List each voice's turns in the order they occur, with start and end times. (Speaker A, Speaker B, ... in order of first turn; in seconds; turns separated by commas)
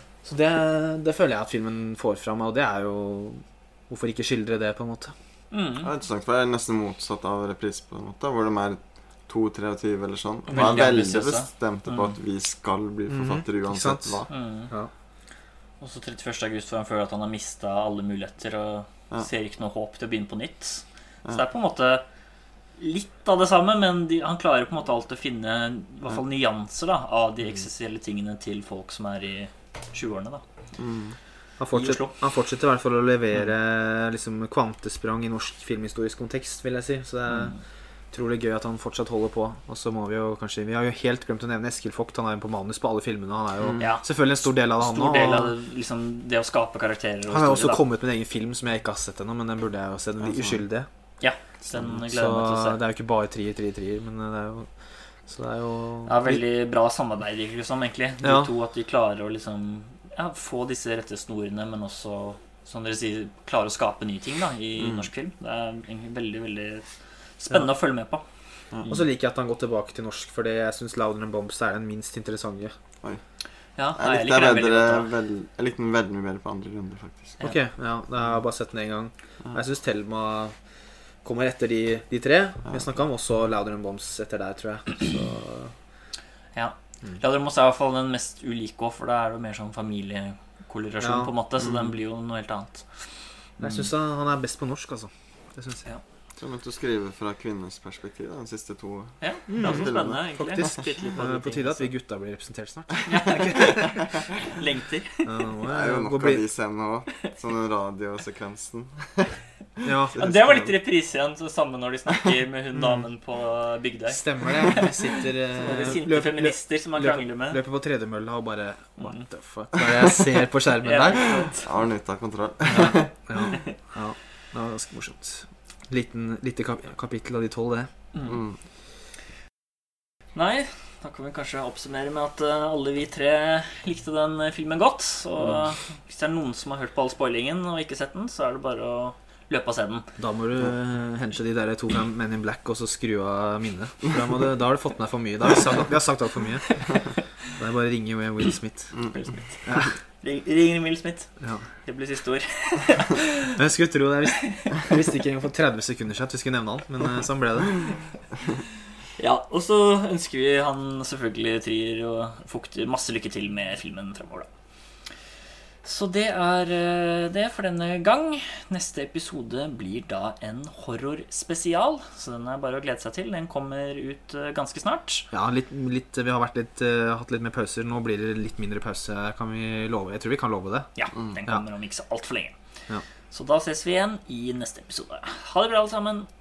Speaker A: 0.2-5.1, Speaker B: 5.5-5.9, Speaker C: 5.8-14.3, Speaker B: 10.5-12.1, Speaker A: 13.1-14.9, Speaker B: 14.3-14.7, Speaker B: 15.8-22.1, Speaker B: 22.8-30.4, Speaker C: 30.8-31.2, Speaker A: 31.6-37.6, Speaker B: 31.7-32.1, Speaker B: 37.3-37.6, Speaker A: 38.1-45.5, Speaker B: 43.8-44.0, Speaker B: 44.8-47.8, Speaker A: 47.3-50.9, Speaker C: 50.2-50.6, Speaker B: 51.2-52.8, Speaker C: 51.7-52.0, Speaker A: 52.1-54.7, Speaker A: 55.3-56.4, Speaker B: 56.1-66.9, Speaker A: 58.2-58.5, Speaker C: 64.8-65.1, Speaker B: 67.4-68.2, Speaker A: 68.9-72.8, Speaker B: 73.8-75.1, Speaker C: 74.0-77.4, Speaker A: 77.4-80.6, Speaker A: 81.2-85.7, Speaker B: 86.5-93.9, Speaker A: 91.0-91.3, Speaker C: 91.6-91.9, Speaker A: 93.6-95.9, Speaker C: 96.4-100.2, Speaker B: 99.2-101.9, Speaker A: 99.5-104.0, Speaker B: 103.0-105.3, Speaker A: 105.2-106.5, Speaker C: 105.7-110.8, Speaker A: 109.8-110.2, Speaker B: 110.2-117.6, Speaker A: 114.1-121.5, Speaker B: 119.0-119.3, Speaker B: 120.8-121.7, Speaker C: 121.6-123.1, Speaker A: 122.7-127.9, Speaker B: 128.1-128.4, Speaker C: 128.3-128.6, Speaker B: 130.3-140.1, Speaker A: 140.2-149.0, Speaker C: 148.9-149.2, Speaker B: 149.1-153.4, Speaker A: 149.7-149.9, Speaker A: 151.4-151.7, Speaker A: 153.6-157.9, Speaker B: 154.4-154.9, Speaker B: 159.2-164.5, Speaker B: 165.8-175.3, Speaker A: 175.3-181.6, Speaker B: 181.0-182.6, Speaker B: 183.3-186.3